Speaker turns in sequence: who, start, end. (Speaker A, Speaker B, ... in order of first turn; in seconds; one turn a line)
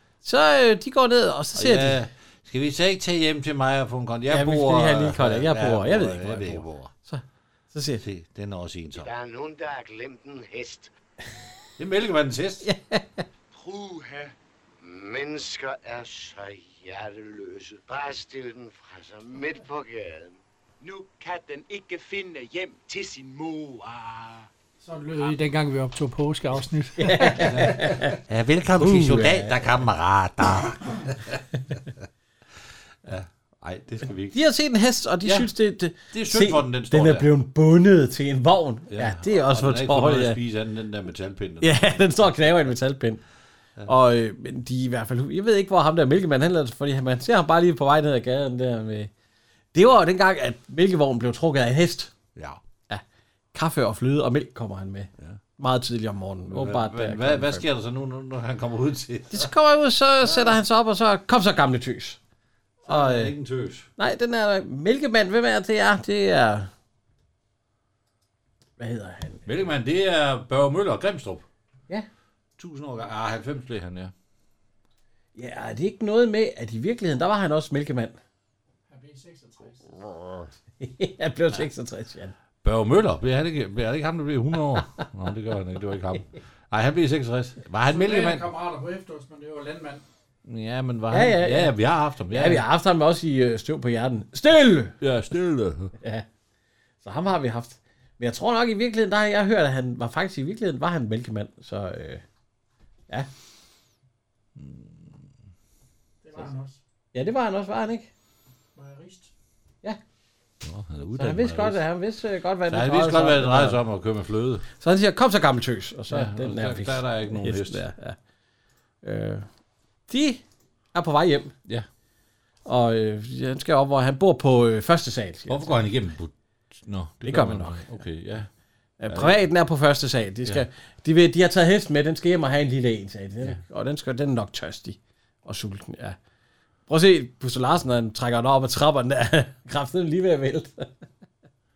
Speaker A: 0.2-2.0
Speaker B: 1.5-6.9
Speaker A: 4.3-8.0
Speaker B: 8.0-9.1
Speaker C: 8.9-10.9
Speaker B: 11.8-12.7
Speaker A: 12.6-13.2
Speaker D: 13.5-14.3
Speaker C: 14.8-20.4
Speaker D: 20.8-24.5
Speaker E: 24.8-27.6
Speaker A: 27.0-28.2
Speaker B: 27.4-31.9
Speaker A: 28.8-29.6
Speaker B: 33.0-34.4
Speaker A: 34.3-40.4
Speaker B: 35.2-35.5
Speaker B: 36.1-37.3
Speaker B: 38.9-42.6
Speaker A: 41.6-43.2
Speaker A: 43.9-49.1
Speaker A: 49.7-52.1
Speaker B: 52.3-52.6
Speaker A: 53.5-57.6
Speaker B: 56.5-59.5
Speaker A: 59.3-62.2
Speaker B: 60.2-60.6
Speaker B: 62.8-63.9
Speaker A: 62.9-63.3
Speaker A: 64.0-66.7
Speaker A: 68.8-69.5
Speaker B: 69.5-71.5
Speaker B: 72.6-74.1
Speaker A: 75.3-78.2
Speaker E: 78.9-80.0
Speaker A: 80.8-82.3
Speaker B: 82.6-88.5
Speaker E: 87.8-90.0
Speaker B: 90.4-92.6
Speaker A: 91.1-91.7
Speaker A: 92.3-95.0
Speaker B: 95.0-95.9
Speaker A: 96.0-96.2
Speaker A: 97.0-102.2
Speaker B: 104.6-105.2
Speaker E: 106.2-106.8
Speaker A: 107.1-108.1
Speaker E: 108.7-109.3
Speaker B: 110.6-111.8
Speaker A: 111.2-113.8
Speaker B: 112.7-114.7
Speaker A: 114.8-118.2
Speaker B: 116.1-117.8
Speaker A: 119.0-119.5
Speaker A: 120.1-120.4
Speaker A: 120.9-121.5
Speaker A: 122.7-125.8
Speaker B: 125.5-128.5
Speaker A: 127.2-127.9
Speaker A: 129.0-136.2
Speaker B: 129.1-129.4
Speaker A: 136.9-140.9